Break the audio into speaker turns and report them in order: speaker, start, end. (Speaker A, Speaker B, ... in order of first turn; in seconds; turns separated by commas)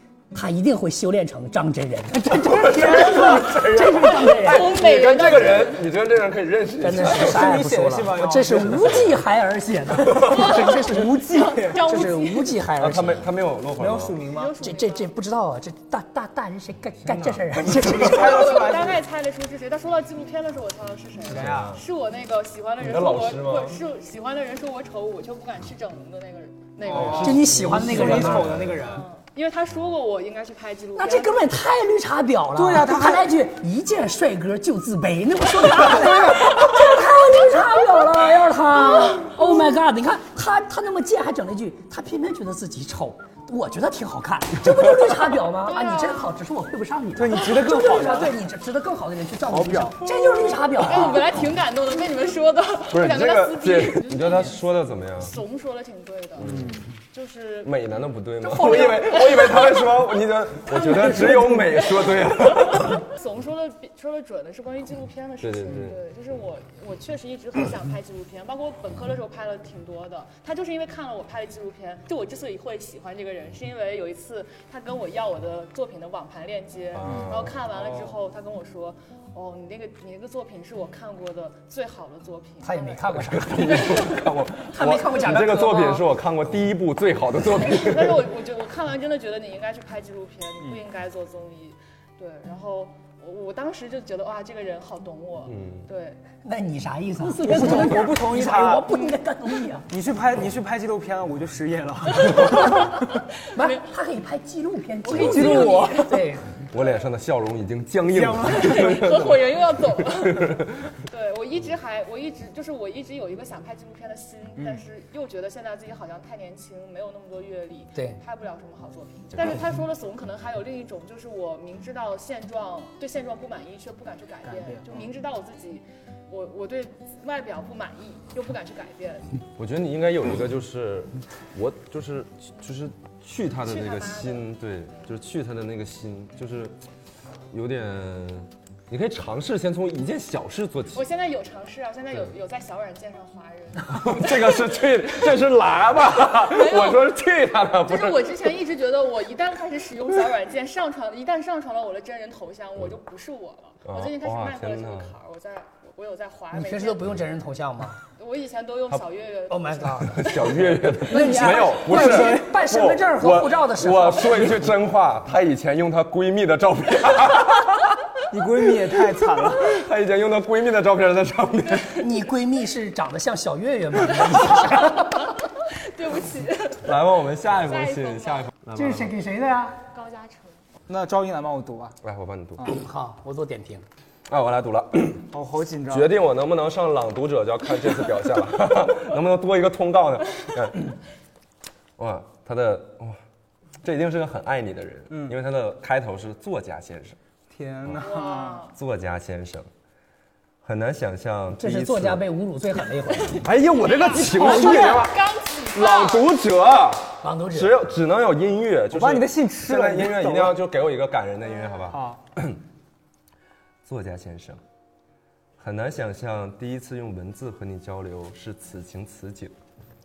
Speaker A: 0.3-5.4, Speaker B: 2.4-9.2, Speaker C: 4.4-5.8, Speaker A: 6.8-13.3, Speaker D: 7.1-9.0, Speaker D: 10.2-12.2, Speaker C: 10.3-12.5, Speaker B: 12.8-14.2, Speaker D: 13.8-14.5, Speaker C: 14.3-15.1, Speaker A: 14.6-18.3, Speaker B: 17.0-17.8, Speaker D: 17.7-19.0, Speaker C: 18.1-27.4, Speaker D: 21.3-21.8, Speaker B: 21.3-21.8, Speaker B: 22.8-23.8, Speaker D: 26.8-29.1, Speaker B: 26.9-28.8, Speaker A: 27.2-28.6, Speaker C: 28.8-31.5, Speaker A: 30.9-51.3, Speaker D: 32.5-33.3, Speaker C: 45.6-46.3, Speaker D: 47.1-48.4, Speaker D: 49.5-50.0, Speaker C: 50.8-54.6, Speaker B: 52.9-55.4, Speaker C: 55.2-56.5, Speaker B: 56.4-56.8, Speaker D: 56.4-56.9, Speaker C: 57.1-57.8, Speaker B: 57.6-63.1, Speaker C: 58.4-59.8, Speaker C: 63.1-83.2, Speaker B: 65.4-66.0, Speaker B: 76.9-77.5, Speaker D: 77.0-78.1, Speaker A: 82.6-84.0, Speaker B: 83.1-88.3, Speaker A: 84.7-86.0, Speaker C: 87.6-96.2, Speaker B: 95.5-95.9, Speaker A: 96.4-99.9, Speaker D: 97.2-98.9, Speaker D: 99.9-102.8, Speaker C: 102.3-103.0, Speaker A: 103.5-106.5, Speaker C: 105.0-106.1, Speaker D: 105.1-106.2, Speaker B: 106.7-110.9, Speaker C: 106.7-107.0, Speaker D: 108.1-109.0, Speaker C: 108.5-129.3, Speaker D: 114.6-114.8, Speaker A: 117.9-118.2, Speaker D: 124.4-125.1, Speaker B: 129.6-136.8, Speaker C: 133.6-135.1, Speaker B: 137.5-141.0, Speaker C: 140.9-145.0, Speaker B: 143.9-148.4, Speaker C: 146.3-147.1, Speaker C: 147.8-157.0, Speaker B: 153.8-155.1, Speaker A: 156.5-158.0, Speaker C: 158.2-160.5, Speaker A: 159.5-160.3, Speaker B: 160.0-167.9, Speaker A: 161.1-164.5, Speaker D: 161.1-162.5, Speaker D: 168.3-169.8, Speaker B: 169.6-172.1, Speaker A: 171.9-175.3, Speaker C: 175.7-176.9, Speaker B: 176.8-179.1, Speaker C: 177.5-178.5, Speaker A: 178.7-179.8, Speaker C: 179.9-180.6, Speaker D: 180.9-182.0, Speaker B: 182.0-182.7, Speaker A: 182.7-183.8, Speaker B: 184.3-185.3, Speaker D: 185.3-186.1, Speaker B: 185.9-190.9, Speaker B: 192.0-193.2, Speaker B: 193.8-197.2, Speaker D: 195.1-195.3, Speaker D: 197.5-198.6, Speaker C: 198.0-198.7, Speaker B: 198.7-199.7, Speaker B: 200.6-202.3, Speaker A: 201.6-203.4, Speaker B: 203.3-212.6, Speaker C: 203.8-206.3, Speaker A: 207.2-207.7, Speaker D: 208.9-210.6, Speaker D: 211.9-212.2, Speaker B: 213.8-214.6, Speaker B: 215.6-219.5